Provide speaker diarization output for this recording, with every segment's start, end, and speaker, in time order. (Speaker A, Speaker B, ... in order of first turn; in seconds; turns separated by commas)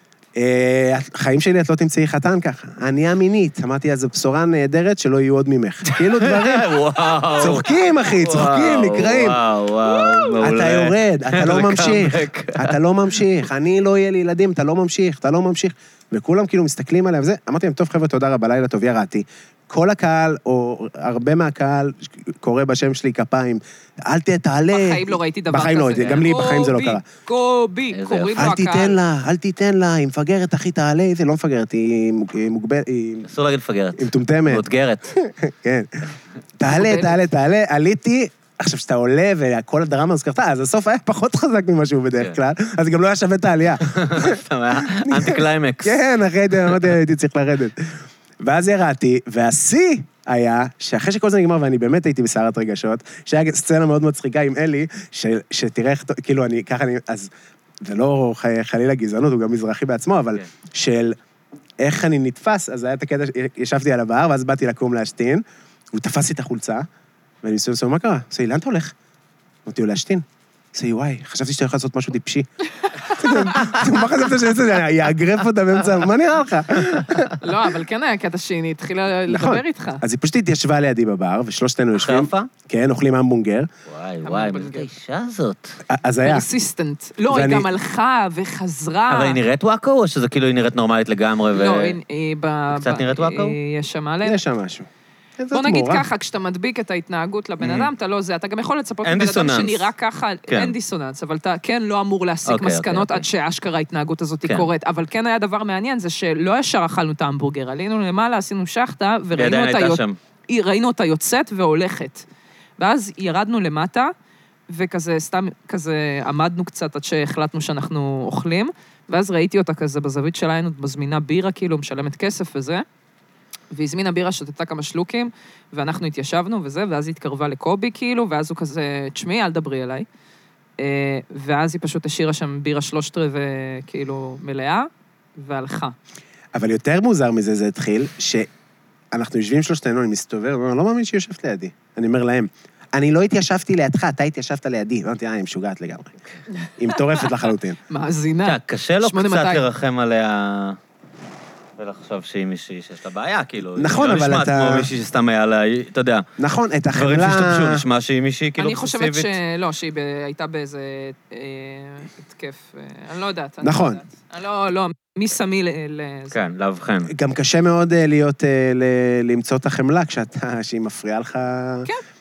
Speaker A: 0.4-6.7, Speaker B: 5.9-12.8, Speaker A: 7.4-9.4, Speaker C: 9.8-10.4, Speaker A: 10.3-27.1, Speaker C: 24.7-29.0, Speaker B: 27.9-28.5, Speaker A: 28.4-33.3, Speaker B: 33.3-35.1, Speaker A: 34.0-57.3, Speaker C: 36.7-37.2, Speaker B: 43.8-46.0, Speaker A: 57.8-61.1, Speaker A: 61.8-66.9, Speaker A: 67.4-68.9, Speaker A: 69.7-72.5, Speaker A: 73.0-77.3, Speaker C: 73.2-73.5, Speaker C: 77.4-80.0, Speaker A: 79.3-83.7, Speaker B: 81.9-82.5, Speaker B: 83.9-85.8, Speaker C: 84.2-84.9, Speaker A: 85.9-86.5, Speaker C: 86.2-89.4, Speaker A: 87.3-87.7, Speaker B: 89.1-92.0, Speaker C: 91.5-94.4, Speaker B: 92.7-93.6, Speaker A: 94.2-94.9, Speaker A: 95.4-96.0, Speaker C: 95.5-112.3, Speaker B: 97.6-97.9, Speaker B: 99.0-99.9, Speaker B: 100.5-100.7, Speaker B: 102.5-103.3, Speaker B: 109.4-110.2, Speaker C: 112.8-114.1, Speaker C: 114.7-122.8, Speaker C: 123.7-130.1, Speaker C: 130.8-135.9, Speaker A: 136.5-138.5, Speaker A: 139.1-146.2, Speaker A: 146.8-147.8, Speaker C: 147.9-149.7, Speaker B: 148.4-150.8, Speaker B: 151.8-156.3, Speaker A: 153.8-154.9, Speaker A: 156.4-157.8, Speaker B: 156.9-159.3, Speaker C: 158.6-166.4, Speaker A: 163.6-164.0, Speaker B: 166.3-167.1, Speaker A: 167.1-171.9